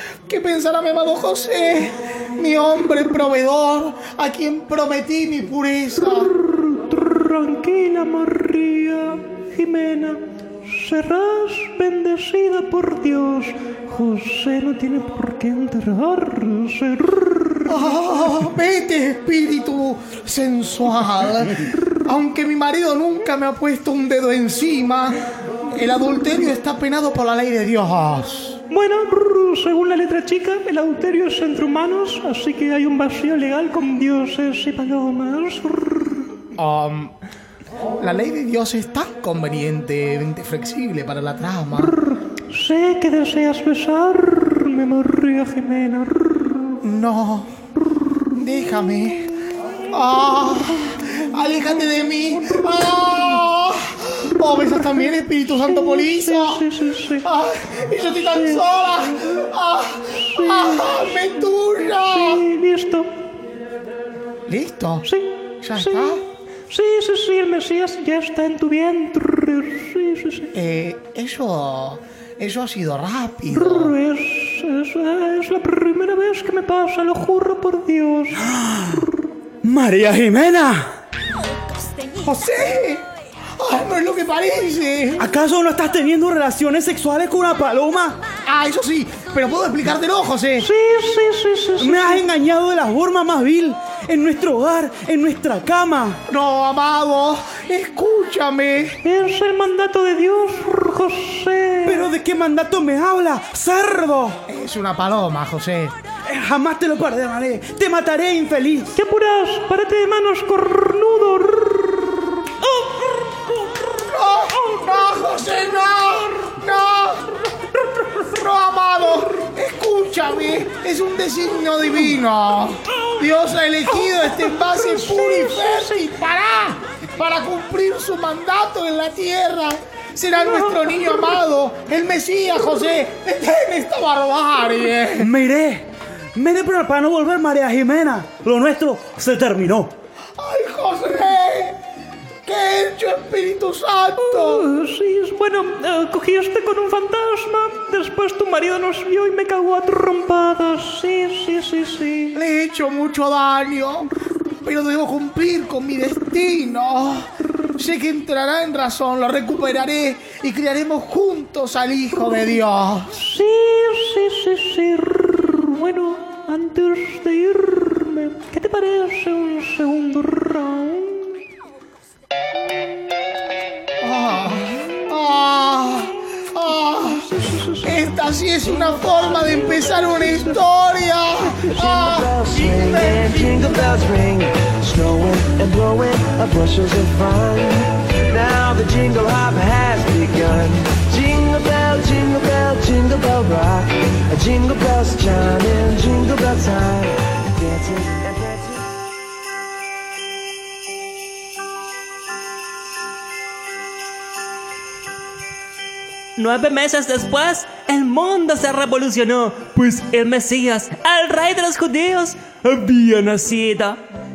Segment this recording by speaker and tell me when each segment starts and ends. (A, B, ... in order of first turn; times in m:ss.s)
0:00.3-0:06.3 A
0:06.4-0:17.8 B
0:17.7-0:25.2 A
0:25.7-0:28.6 A
0:28.7-0:36.2 B
0:36.6-0:37.1 A
0:38.0-0:41.9 A
0:42.5-0:46.7 B
0:46.8-0:47.5 A
0:48.4-0:49.3 A
0:49.9-0:56.6 A
0:55.7-0:57.2 B
0:57.2-1:02.4 A
0:58.3-0:58.7 B
1:00.4-1:01.0 B
1:02.1-1:03.1 B
1:04.5-1:05.1 A
1:05.1-1:06.2 B
1:05.6-1:06.2 A
1:06.7-1:10.5 B
1:10.5-1:13.9 A
1:13.6-1:18.4 B
1:18.3-1:19.0 C
1:19.6-1:20.9 C
1:22.2-1:23.0 A
1:23.6-1:25.2 A
1:25.2-1:28.2 C
1:28.5-1:30.7 A
1:30.6-1:32.2 B
1:31.8-1:36.2 C
1:36.3-1:39.0 A
1:39.0-1:42.0 B
1:41.8-1:44.4 C
1:44.5-1:46.0 A
1:46.2-1:49.0 C
1:49.0-1:52.3 B
1:54.1-1:57.2 A
1:58.3-2:15.3 A
2:04.8-2:05.9 B
2:15.2-2:19.9 C
2:20.4-2:21.8 A
2:22.5-2:24.6 A
2:24.4-2:32.4 B
2:32.3-2:34.1 A
2:34.6-2:37.3 A
2:37.8-2:43.1 A
2:43.2-2:51.4 B
2:54.0-2:57.2 A
2:57.4-2:58.0 B
2:57.9-3:03.2 A
3:01.8-3:18.8 D
3:26.4-3:34.0 E